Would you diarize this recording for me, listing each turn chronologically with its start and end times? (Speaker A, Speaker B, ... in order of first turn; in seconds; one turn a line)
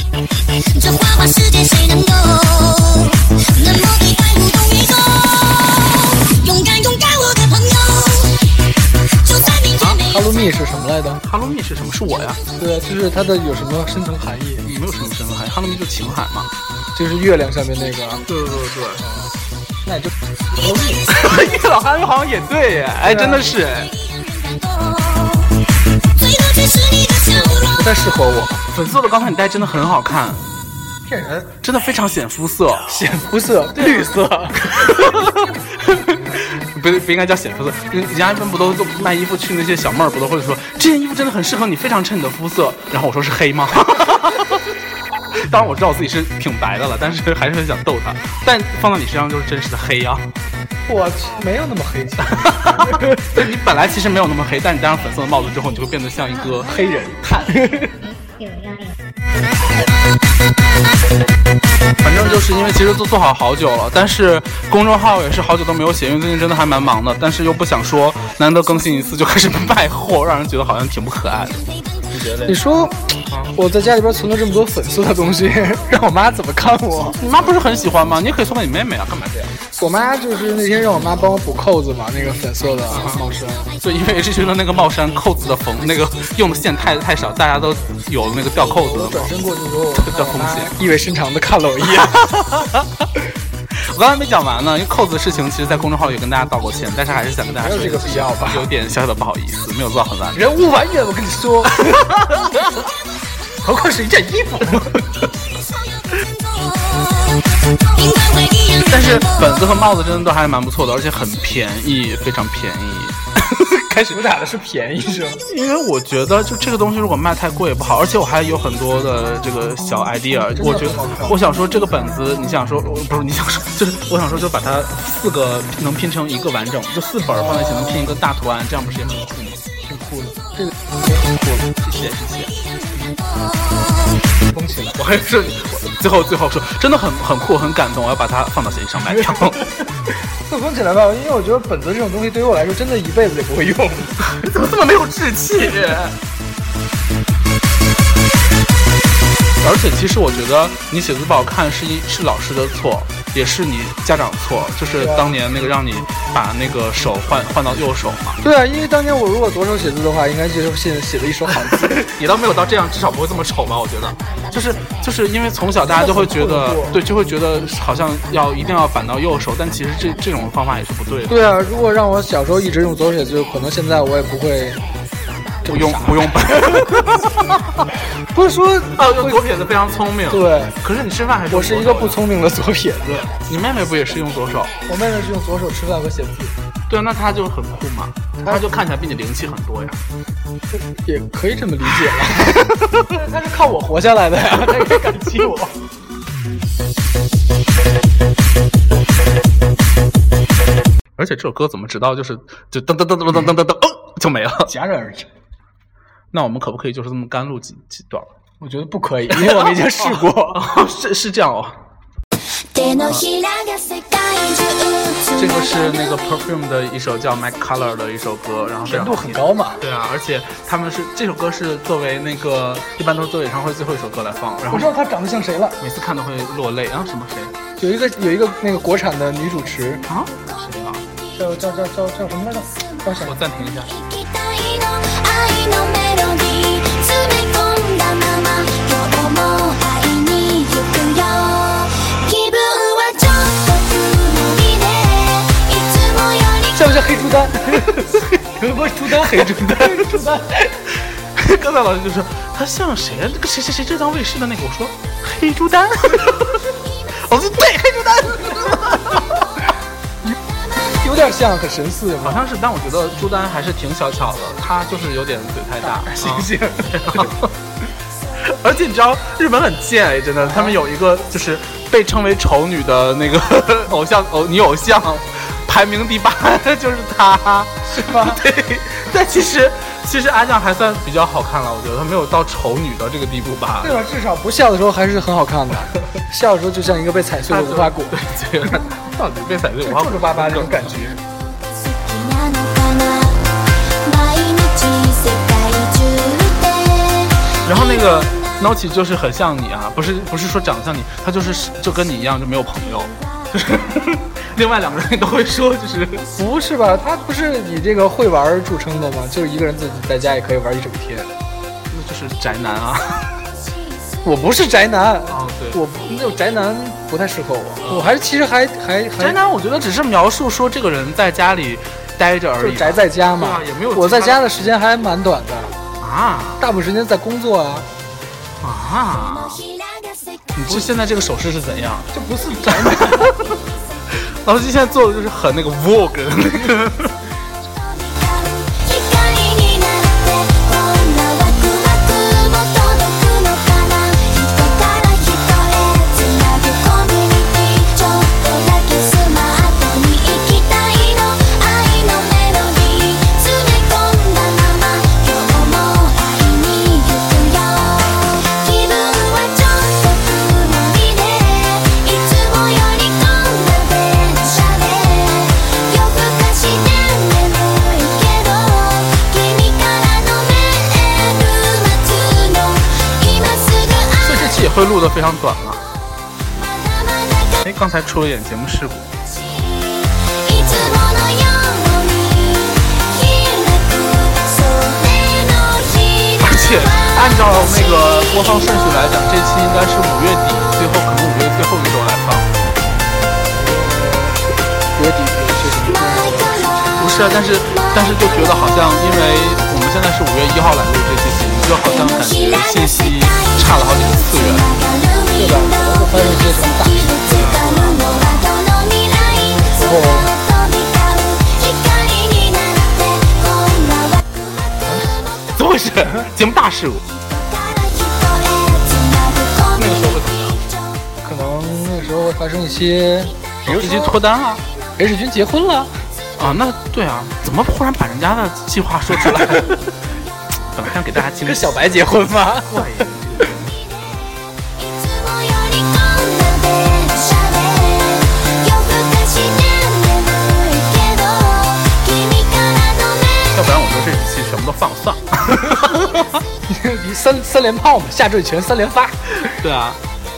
Speaker A: 0.6-8.4
Speaker A: 9.2-10.1
Speaker B: 9.8-11.2
Speaker C: 11.2-12.4
Speaker B: 12.5-14.7
Speaker C: 14.6-16.5
Speaker B: 16.9-18.2
Speaker C: 18.3-19.1
Speaker B: 19.9-21.1
Speaker C: 21.1-23.9
Speaker B: 23.0-23.4
Speaker A: 24.3-25.4
Speaker A: 26.2-27.6
Speaker B: 27.2-28.6
Speaker C: 28.7-30.4
Speaker B: 31.0-31.5
Speaker C: 31.6-32.9
Speaker B: 32.9-34.6
Speaker C: 33.7-44.7
Speaker C: 45.3-50.3
Speaker B: 50.9-53.3
Speaker C: 52.2-57.6
Speaker B: 56.7-58.0
Speaker A: 58.4-58.9
Speaker C: 62.0-72.6
Speaker B: 72.5-77.2
Speaker C: 77.2-79.5
Speaker B: 79.8-83.7
Speaker C: 82.9-83.2
Speaker C: 83.8-89.3
Speaker B: 88.6-92.2
Speaker C: 89.9-90.8
Speaker C: 91.8-93.0
Speaker C: 93.7-100.4
Speaker B: 97.6-98.7
Speaker B: 100.3-102.0
Speaker C: 101.8-102.3
Speaker B: 103.6-105.1
Speaker A: 106.5-109.2
Speaker C: 108.9-114.2
Speaker B: 114.1-115.4
Speaker C: 115.5-129.6
Speaker B: 120.5-121.4
Speaker B: 127.2-128.2
Speaker B: 129.8-132.1
Speaker C: 131.9-132.5
Speaker B: 134.5-135.0
Speaker C: 135.0-139.6
Speaker B: 139.1-144.3
Speaker C: 144.2-146.2
Speaker C: 149.6-158.4
Speaker B: 155.0-155.3
Speaker B: 158.4-162.0
Speaker C: 161.6-171.4
Speaker B: 165.8-167.0
Speaker B: 171.3-174.8
Speaker B: 175.6-177.1
Speaker C: 175.6-177.9
Speaker B: 178.2-179.5
Speaker C: 178.9-182.2
Speaker B: 180.3-180.8
Speaker B: 181.5-183.2
Speaker C: 183.0-184.7
Speaker B: 184.9-186.6
Speaker C: 186.9-190.0
Speaker B: 190.9-195.8
Speaker C: 192.2-193.0
Speaker C: 201.2-204.7
Speaker B: 204.6-205.3
Speaker C: 206.3-208.3
Speaker B: 208.6-210.7
Speaker C: 209.3-211.8
Speaker A: 212.5-215.9
Speaker C: 215.3-224.9
Speaker B: 218.9-219.8
Speaker B: 224.7-225.8
Speaker C: 225.8-227.5
Speaker B: 227.8-230.0
Speaker C: 230.1-231.1
Speaker B: 231.3-233.4
Speaker C: 233.2-233.9
Speaker A: 233.9-247.2
Speaker B: 246.7-250.8
Speaker C: 247.7-248.2
Speaker C: 249.1-250.2
Speaker C: 250.9-259.7
Speaker B: 260.9-262.4
Speaker C: 262.2-267.5
Speaker B: 265.8-267.3
Speaker C: 268.4-284.0
Speaker B: 270.4-270.8
Speaker B: 277.9-278.4
Speaker B: 283.8-288.1
Speaker C: 287.5-291.0
Speaker B: 289.8-291.2
Speaker A: 291.7-297.4
Speaker C: 297.6-306.3
Speaker B: 306.4-311.3
Speaker C: 311.9-313.3
Speaker B: 314.2-319.4
Speaker C: 315.3-315.8
Speaker C: 317.8-318.2
Speaker C: 319.2-324.4
Speaker B: 322.6-325.7
Speaker C: 326.0-326.6
Speaker B: 326.6-327.9
Speaker C: 328.6-329.6
Speaker A: 329.5-330.5
Speaker C: 330.5-332.1
Speaker B: 332.1-333.4
Speaker C: 332.6-337.2
Speaker A: 337.7-374.6
Speaker C: 374.2-375.9
Speaker A: 376.6-377.6
Speaker C: 377.6-379.1
Speaker A: 379.6-386.4
Speaker C: 386.4-392.5
Speaker B: 393.5-397.1
Speaker C: 397.0-404.7
Speaker A: 402.1-405.8
Speaker B: 405.3-407.7
Speaker A: 406.8-414.4
Speaker C: 407.3-408.5
Speaker B: 409.3-410.3
Speaker C: 415.5-417.0
Speaker A: 417.2-420.2
Speaker C: 419.7-420.6
Speaker B: 421.2-424.1
Speaker C: 423.7-424.6
Speaker B: 425.0-425.9
Speaker C: 426.4-429.9
Speaker B: 429.2-429.8
Speaker C: 430.7-431.8
Speaker B: 431.4-433.5
Speaker C: 432.6-433.8
Speaker A: 434.8-443.5
Speaker C: 443.4-446.4
Speaker B: 446.7-449.5
Speaker C: 449.4-450.0